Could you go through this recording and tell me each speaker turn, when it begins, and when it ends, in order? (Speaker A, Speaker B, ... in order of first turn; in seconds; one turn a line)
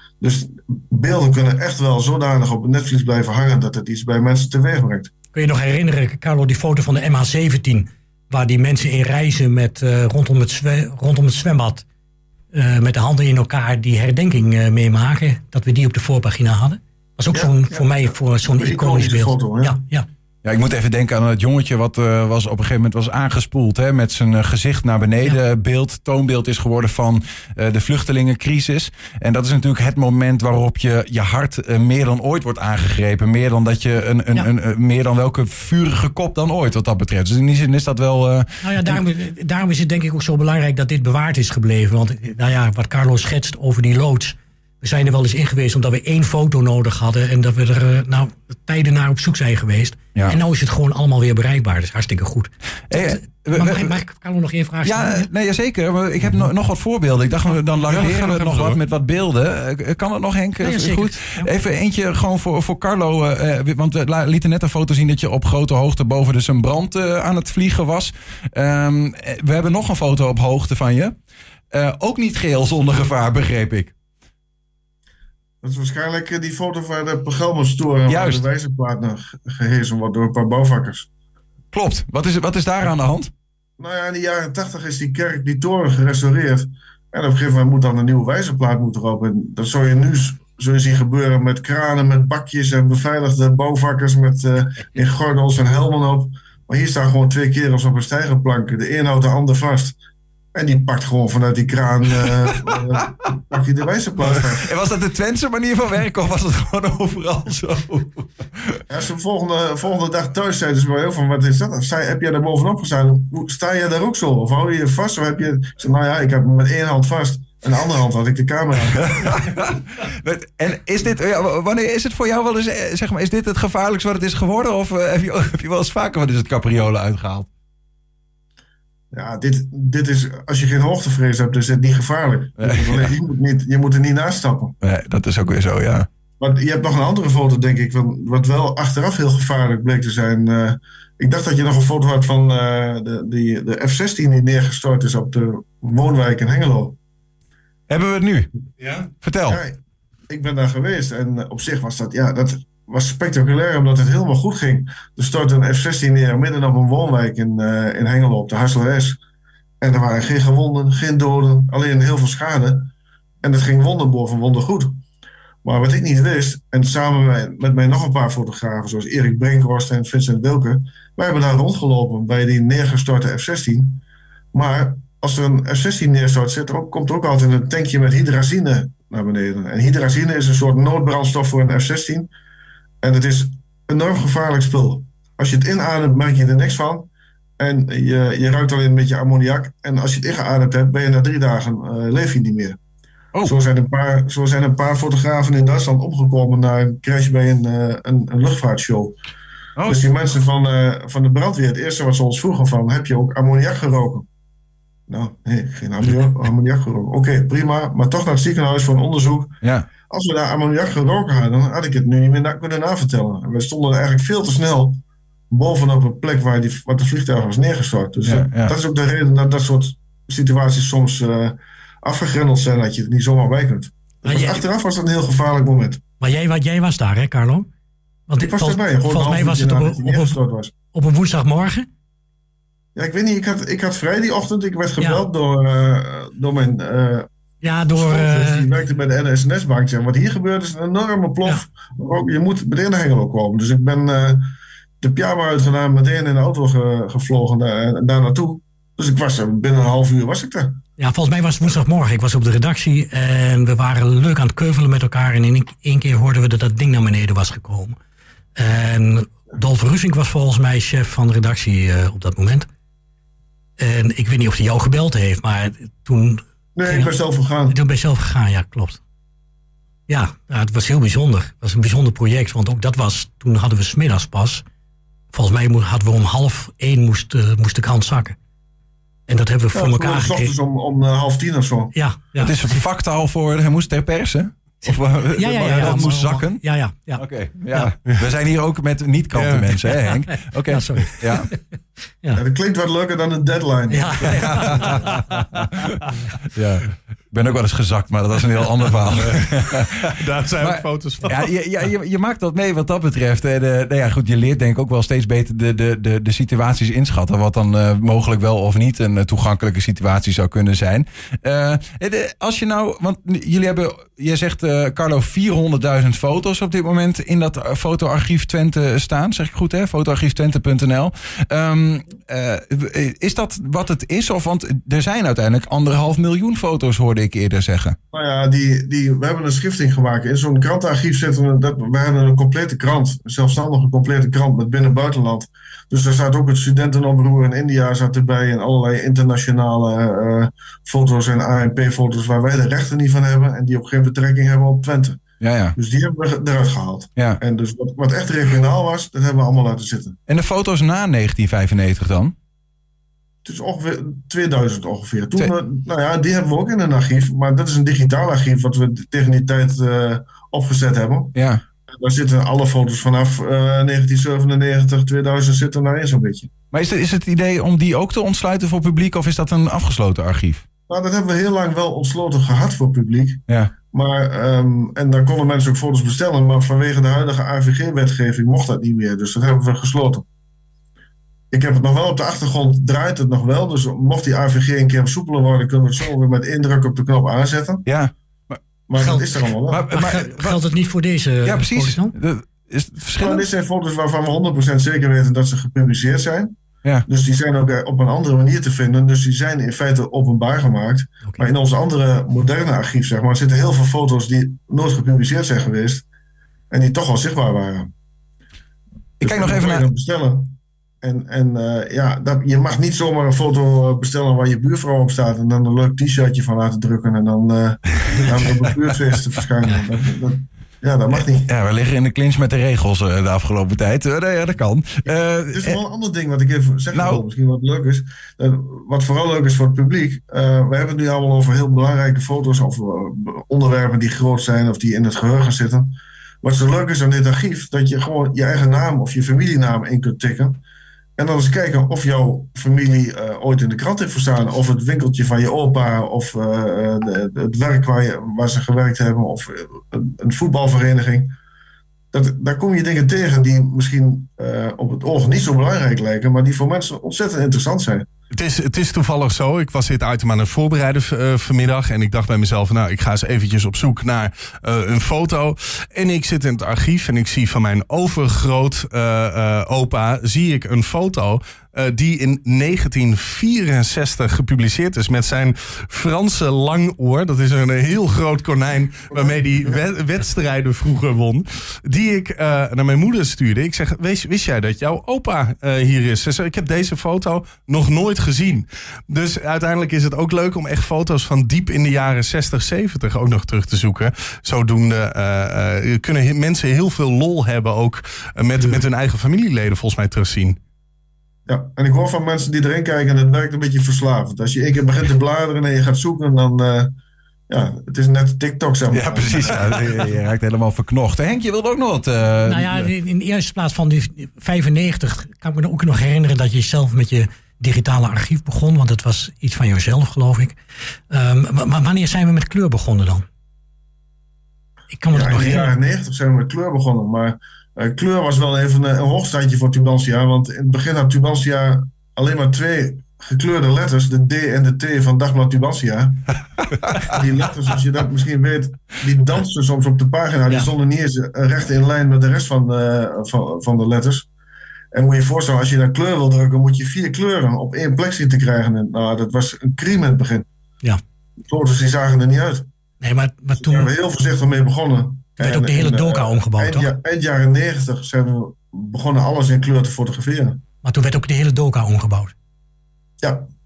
Speaker A: 0.2-5.1
Speaker B: 5.3-11.8
Speaker B: 12.5-20.1
Speaker A: 17.3-19.8
Speaker C: 20.4-39.0
Speaker B: 38.6-55.3
Speaker C: 52.9-54.0
Speaker C: 54.8-71.1
Speaker D: 57.8-58.8
Speaker B: 60.6-61.5
Speaker C: 71.7-73.9
Speaker A: 75.6-81.1
Speaker C: 78.1-78.4
Speaker C: 81.7-83.3
Speaker A: 83.8-100.0
Speaker A: 100.5-104.7
Speaker C: 102.5-103.0
Speaker C: 104.2-108.8
Speaker A: 108.9-119.4
Speaker C: 119.0-127.5
Speaker A: 129.1-134.7
Speaker C: 132.6-133.1
Speaker C: 134.8-136.1
Speaker A: 136.4-147.0
Speaker C: 147.9-148.5
Speaker D: 148.8-149.1
Speaker C: 149.2-149.6
Speaker A: 149.5-149.8
Speaker A: 150.3-159.2
Speaker A: 159.8-162.9
Speaker A: 163.4-165.0
Speaker A: 165.6-182.3
Speaker A: 183.0-187.1
Speaker A: 187.6-192.8
Speaker A: 193.4-199.2
Speaker C: 199.8-200.0
Speaker A: 199.8-204.2
Speaker A: 205.1-209.5
Speaker C: 209.6-209.9
Speaker A: 210.1-226.0
Speaker C: 218.2-218.7
Speaker B: 224.2-224.6
Speaker B: 226.2-227.7
Speaker B: 228.3-230.4
Speaker A: 228.4-230.7
Speaker B: 230.9-231.9
Speaker A: 232.9-237.3
Speaker B: 237.6-238.7
Speaker A: 237.9-250.8
Speaker B: 251.0-258.0
Speaker B: 258.6-262.7
Speaker B: 263.8-267.1
Speaker A: 266.8-267.7
Speaker B: 267.7-269.0
Speaker B: 270.1-274.6
Speaker B: 275.3-278.4
Speaker B: 279.3-280.5
Speaker A: 279.7-281.9
Speaker B: 281.9-282.8
Speaker C: 282.4-286.6
Speaker B: 284.8-287.9
Speaker C: 287.2-291.5
Speaker D: 289.3-289.8
Speaker B: 290.3-291.6
Speaker A: 292.3-294.9
Speaker B: 293.9-295.0
Speaker C: 294.3-295.6
Speaker C: 296.5-327.9
Speaker D: 299.2-299.5
Speaker D: 300.1-301.5
Speaker A: 328.1-345.2
Speaker C: 345.4-345.8
Speaker A: 345.8-350.2
Speaker C: 350.3-352.3
Speaker A: 353.4-361.3
Speaker C: 361.3-361.6
Speaker A: 361.9-366.5
Speaker C: 366.7-370.6
Speaker A: 370.9-373.4
Speaker A: 373.9-380.2
Speaker A: 381.5-387.9
Speaker C: 387.9-388.6
Speaker A: 388.9-389.8
Speaker B: 389.0-389.3
Speaker C: 389.7-390.6
Speaker B: 389.9-392.1
Speaker C: 391.4-393.5
Speaker A: 393.2-396.5
Speaker A: 397.1-406.0
Speaker A: 406.7-407.9
Speaker C: 409.2-409.9
Speaker A: 409.2-421.5
Speaker C: 421.1-425.8
Speaker A: 425.5-440.6
Speaker C: 426.9-427.2
Speaker A: 441.2-451.4
Speaker A: 452.1-458.1
Speaker D: 458.3-500.6
Speaker A: 479.1-479.8
Speaker A: 501.5-506.9
Speaker A: 507.5-509.7
Speaker C: 508.9-512.9
Speaker D: 509.4-510.1
Speaker B: 512.4-520.6
Speaker B: 521.1-523.2
Speaker B: 524.9-525.7
Speaker A: 525.1-536.3
Speaker A: 536.9-544.3
Speaker A: 544.9-550.5
Speaker A: 551.5-552.7
Speaker B: 553.0-553.9
Speaker A: 553.6-560.6
Speaker B: 555.4-556.9
Speaker B: 560.8-562.3
Speaker A: 563.2-563.5